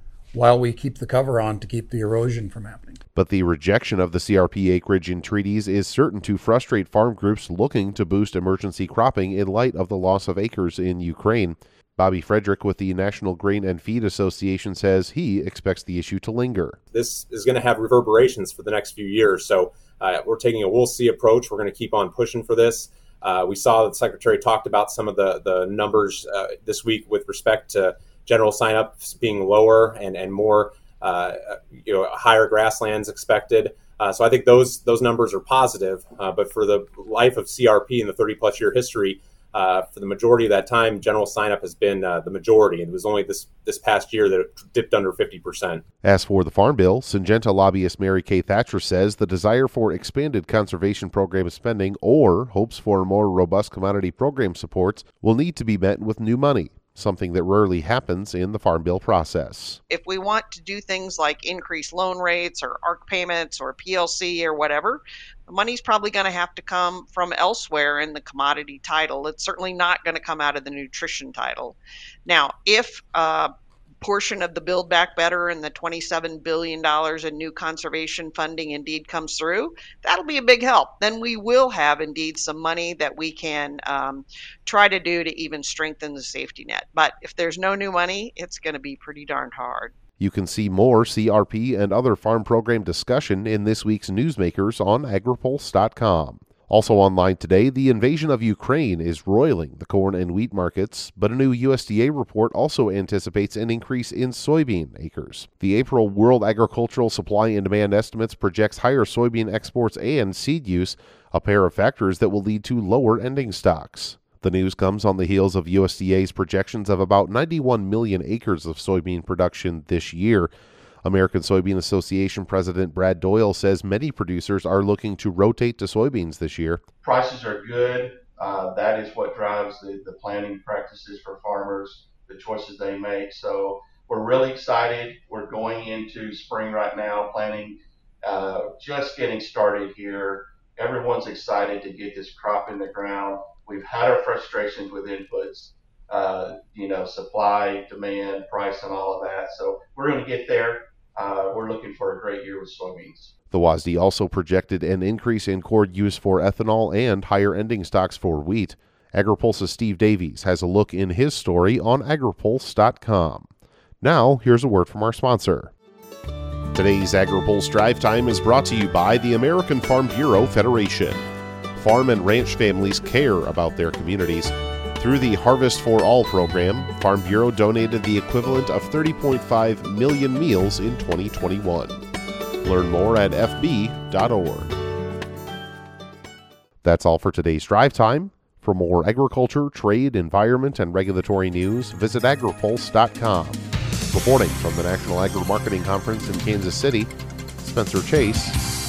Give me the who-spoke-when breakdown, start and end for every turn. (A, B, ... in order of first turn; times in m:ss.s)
0:00.3-0:03.0 A
0:03.1-0:16.8 B
0:16.9-0:45.8 C
0:46.0-0:59.8 B
0:59.9-1:30.0 D
1:30.2-2:00.5 B
2:01.0-2:06.8 B
2:07.0-2:33.3 E
2:33.5-2:43.5 B
2:44.0-2:45.7 B
2:46.7-3:02.0 B
3:02.6-3:04.7 B
3:06.8-3:18.6 B